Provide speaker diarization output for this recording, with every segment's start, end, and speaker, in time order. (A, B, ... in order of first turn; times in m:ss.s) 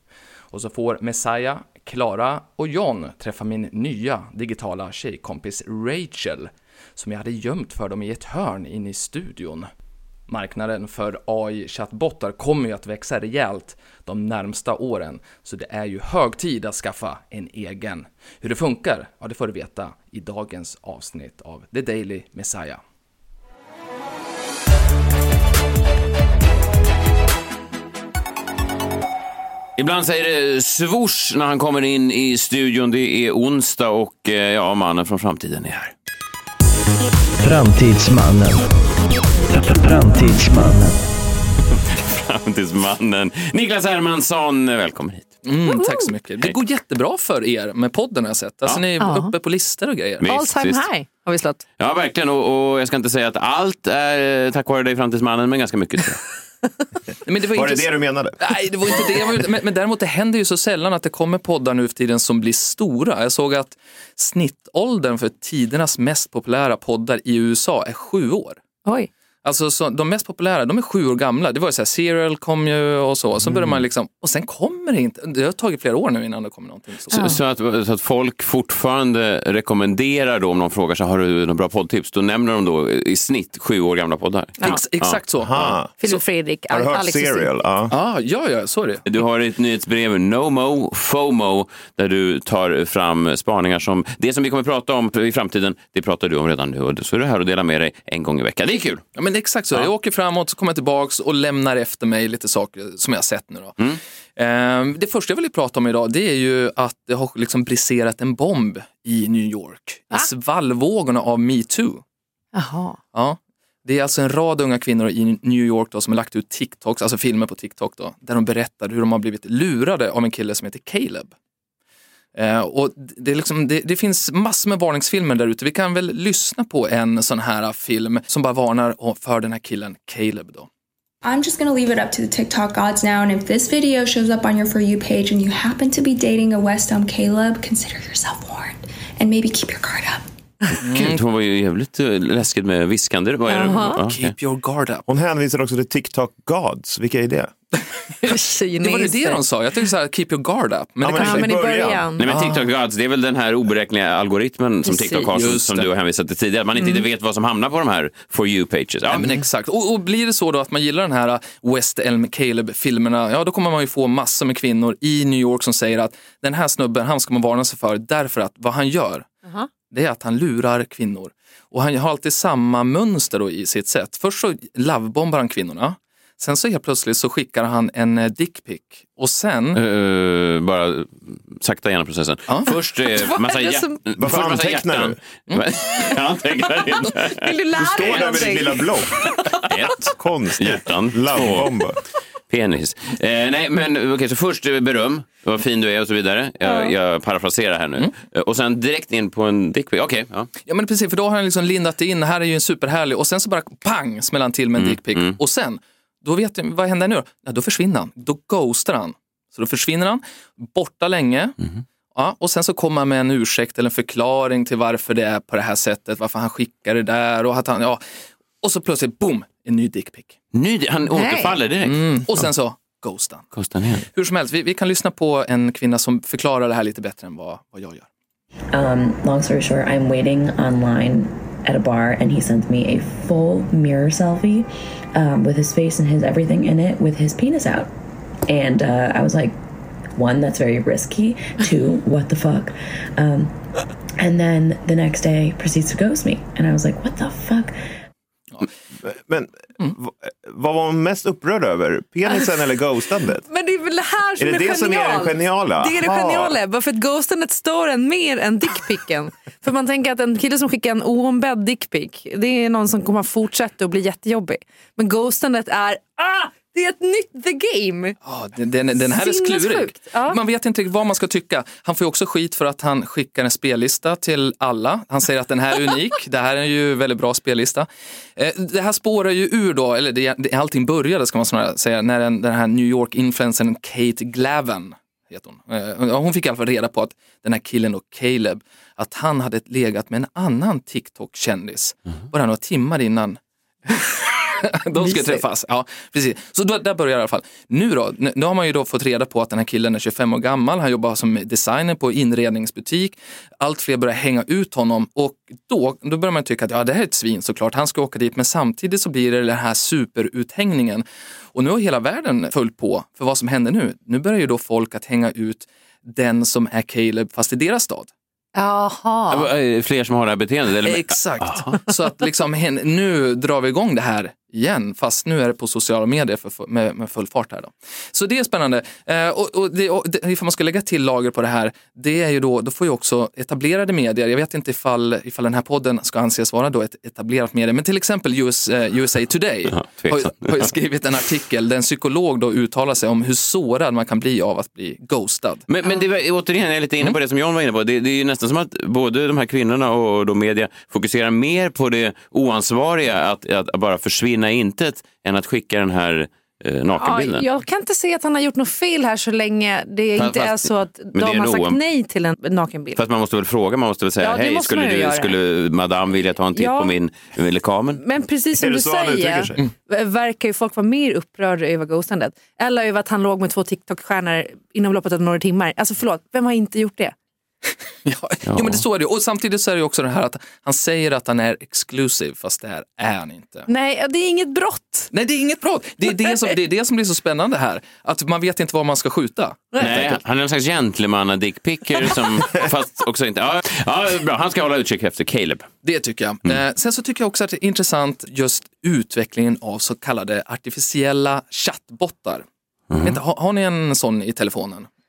0:00.5-0:09.7 A
0:10.3-0:22.8 A
0:29.8-0:35.9 B
0:37.4-0:38.7 C
0:39.5-0:41.0 C
0:41.9-0:45.4 B
0:45.4-0:50.3 A
0:45.7-0:46.1 D
0:49.0-0:49.3 D
0:50.2-0:50.8 B
0:50.2-0:51.6 D
0:51.8-0:56.2 B
0:57.2-1:08.6 A
0:57.5-0:58.4 E
1:09.4-1:17.3 A
1:13.5-1:13.7 B
1:17.1-1:25.2 B
1:17.1-1:17.4 D
1:24.6-1:26.1 A
1:25.4-1:26.1 E
1:26.0-1:27.5 D
1:26.7-1:27.9 E
1:27.9-1:29.0 A
1:29.0-1:39.0 B
1:39.1-1:43.8 A
1:44.4-1:52.0 A
1:52.5-1:53.0 D
1:53.1-2:01.3 A
2:02.3-2:10.7 A
2:11.2-2:20.2 F
2:20.8-2:21.2 A
2:20.9-2:24.3 B
2:23.5-2:24.0 D
2:23.9-2:25.0 A
2:25.1-2:27.5 E
2:28.2-2:29.4 D
2:28.8-2:31.6 A
2:31.0-2:32.1 E
2:31.1-2:32.2 D
2:32.2-2:39.4 B
2:32.3-2:32.6 A
2:34.8-2:35.3 D
2:35.3-2:35.9 A
2:39.1-2:49.3 A
2:49.9-2:59.8 A
2:59.7-3:07.4 B
3:03.0-3:04.1 D
3:04.2-3:05.2 E
3:07.3-3:09.6 D
3:07.8-3:09.2 E
3:08.0-3:08.5 B
3:09.7-3:11.7 B
3:10.1-3:12.0 E
3:12.5-3:20.5 B
3:16.6-3:16.9 D
3:20.6-3:31.6 A
3:24.8-3:25.4 B
3:32.1-3:38.0 A
3:38.6-3:40.3 A
3:40.5-3:42.0 B
3:41.1-3:41.6 D
3:41.8-3:43.5 A
3:43.5-3:44.0 B
3:44.0-3:48.1 A
3:48.7-3:57.9 G
3:58.5-3:59.6 G
4:00.1-4:03.5 G
4:04.2-4:07.8 G
4:09.0-4:13.4 E
4:13.5-4:28.2 D
4:14.4-4:16.6 E
4:28.2-5:18.1 A
4:28.9-4:30.4 D
4:55.0-4:55.4 D
5:18.5-5:19.5 D
5:19.3-5:21.7 B
5:20.8-5:45.6 A
5:39.8-5:40.3 B
5:45.7-5:57.4 B
5:57.0-6:03.0 D
6:00.1-6:01.8 B
6:03.0-6:08.0 B
6:04.2-6:05.4 D
6:06.5-6:07.0 D
6:07.9-6:17.1 D
6:08.5-6:09.6 E
6:18.0-6:23.7 A
6:18.4-6:18.8 B
6:23.7-6:25.1 D
6:25.1-6:30.2 A
6:29.8-6:35.7 B
6:35.8-6:42.4 A
6:42.9-6:43.2 B
6:43.0-6:44.9 A